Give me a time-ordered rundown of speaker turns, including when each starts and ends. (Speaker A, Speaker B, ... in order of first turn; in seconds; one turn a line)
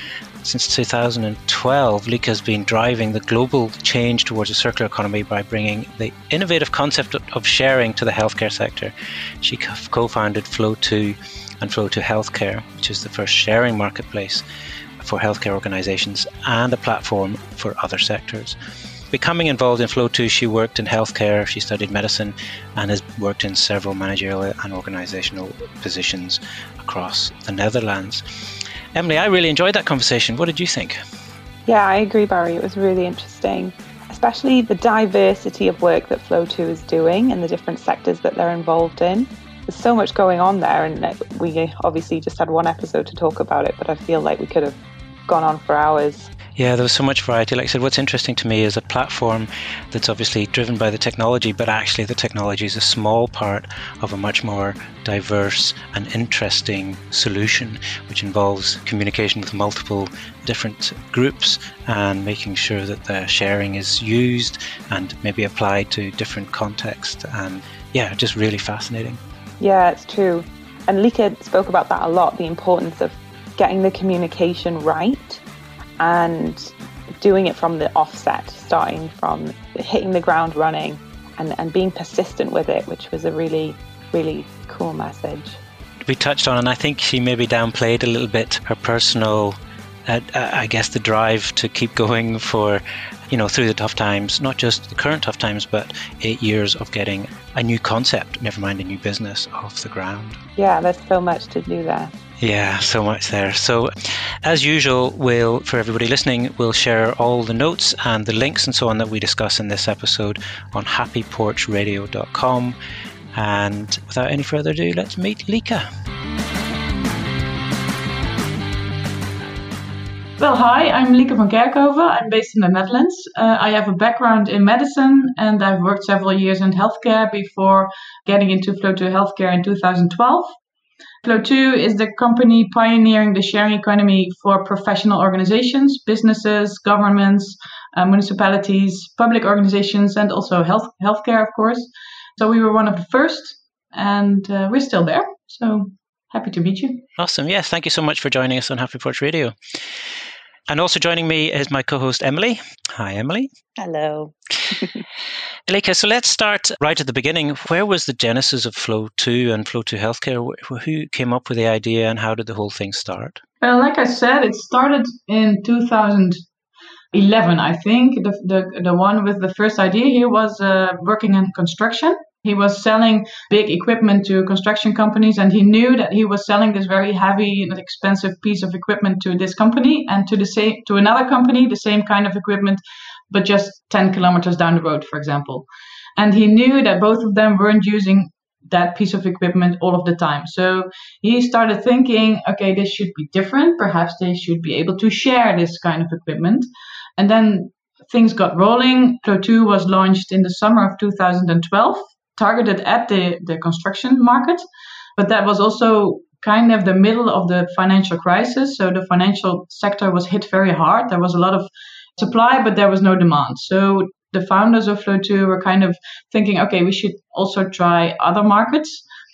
Speaker A: 0.4-14.4
Speaker A: 15.0-18.6
Speaker A: 19.1-28.2
Speaker A: 28.9-31.0
Speaker B: 31.7-46.3
Speaker A: 46.5-69.2
Speaker B: 69.6-75.4
Speaker B: 76.0-85.6
Speaker A: 86.0-100.4
Speaker B: 100.5-102.1
Speaker A: 102.4-112.8
Speaker A: 113.3-115.8
Speaker C: 120.4-130.5
Speaker C: 131.2-147.0
Speaker A: 147.2-149.6
Speaker A: 150.7-153.5
Speaker B: 153.8-155.0
Speaker A: 155.7-163.4
Speaker C: 163.6-166.4
Speaker C: 167.1-196.7
Speaker C: 197.2-204.6
Speaker C: 205.2-219.0